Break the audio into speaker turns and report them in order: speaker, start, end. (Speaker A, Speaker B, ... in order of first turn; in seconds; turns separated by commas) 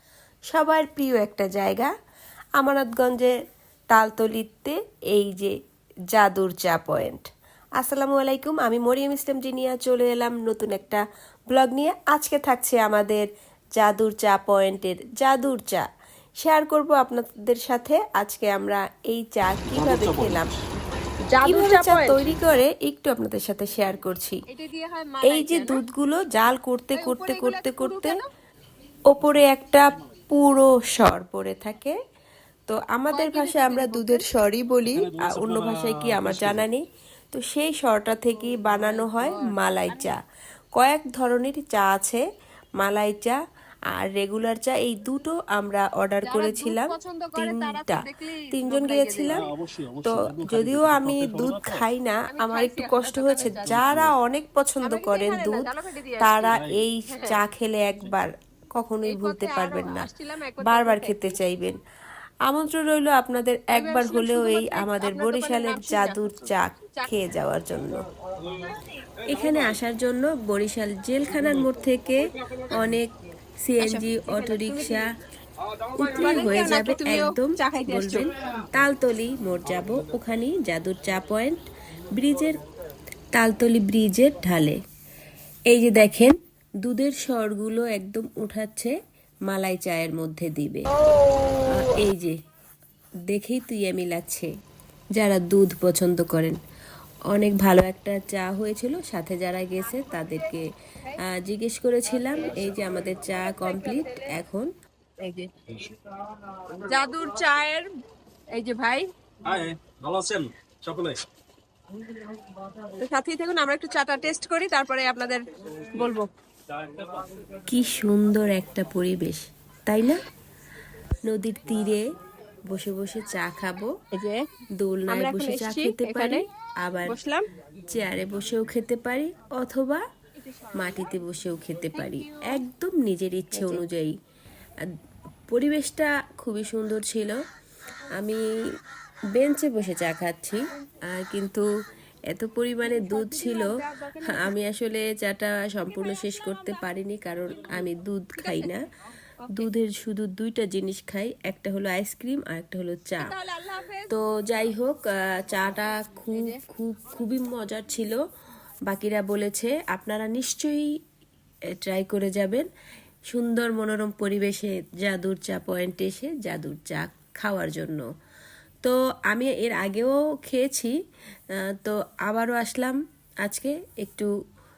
Speaker A: 0.5-1.9, Speaker A: 2.6-3.3, Speaker A: 3.9-5.5, Speaker A: 6.1-7.3, Speaker A: 7.8-13.3, Speaker A: 13.8-15.9, Speaker A: 16.4-20.5, Speaker B: 19.7-20.6, Speaker C: 21.3-22.2, Speaker A: 21.4-24.4, Speaker C: 24.5-25.8, Speaker A: 25.2-28.2, Speaker C: 26.9-28.3, Speaker A: 29.1-32.0, Speaker A: 32.7-40.2, Speaker C: 33.1-34.3, Speaker B: 34.9-36.6, Speaker C: 38.4-40.1, Speaker A: 40.8-42.2, Speaker A: 42.8-43.4, Speaker A: 43.9-49.4, Speaker C: 46.2-49.4, Speaker B: 49.3-51.9, Speaker A: 50.0-55.7, Speaker C: 52.3-54.0, Speaker B: 53.4-54.1, Speaker C: 54.8-57.4, Speaker A: 56.2-60.1, Speaker B: 56.5-56.8, Speaker C: 59.0-61.4, Speaker A: 60.6-61.8, Speaker A: 62.5-68.0, Speaker C: 63.7-66.2, Speaker C: 68.6-69.0, Speaker A: 69.3-73.1, Speaker B: 69.3-69.6, Speaker B: 71.4-71.7, Speaker A: 73.6-75.1, Speaker C: 73.8-75.1, Speaker A: 76.0-81.6, Speaker C: 76.0-78.3, Speaker A: 82.1-82.6, Speaker A: 83.3-84.8, Speaker A: 85.7-88.9, Speaker A: 89.5-90.9, Speaker A: 91.7-92.3, Speaker A: 93.3-94.5, Speaker A: 95.2-96.6, Speaker A: 97.3-100.7, Speaker C: 99.8-101.2, Speaker A: 101.2-104.7, Speaker C: 102.3-104.3, Speaker C: 105.2-105.5, Speaker C: 106.8-107.9, Speaker C: 108.5-109.1, Speaker B: 109.4-111.2, Speaker C: 112.9-116.3, Speaker B: 116.8-117.2, Speaker A: 117.7-120.2, Speaker A: 121.3-122.0, Speaker A: 122.7-123.9, Speaker C: 124.1-124.4, Speaker A: 124.8-127.2, Speaker C: 125.1-126.4, Speaker C: 127.1-127.5, Speaker A: 127.9-130.0, Speaker C: 130.4-131.1, Speaker A: 130.8-134.1, Speaker C: 131.9-132.6, Speaker C: 133.5-133.8, Speaker A: 135.5-137.4, Speaker A: 138.2-138.4, Speaker A: 139.3-141.7, Speaker A: 142.3-148.9, Speaker C: 142.8-144.6, Speaker C: 145.9-146.9, Speaker C: 147.5-147.8, Speaker C: 148.4-148.8, Speaker C: 149.4-149.7, Speaker A: 149.5-153.3, Speaker C: 153.2-154.1, Speaker A: 154.1-158.2, Speaker C: 156.3-156.6, Speaker A: 158.9-160.9, Speaker A: 161.8-162.7, Speaker A: 163.3-168.0, Speaker A: 168.8-170.9, Speaker A: 171.7-174.3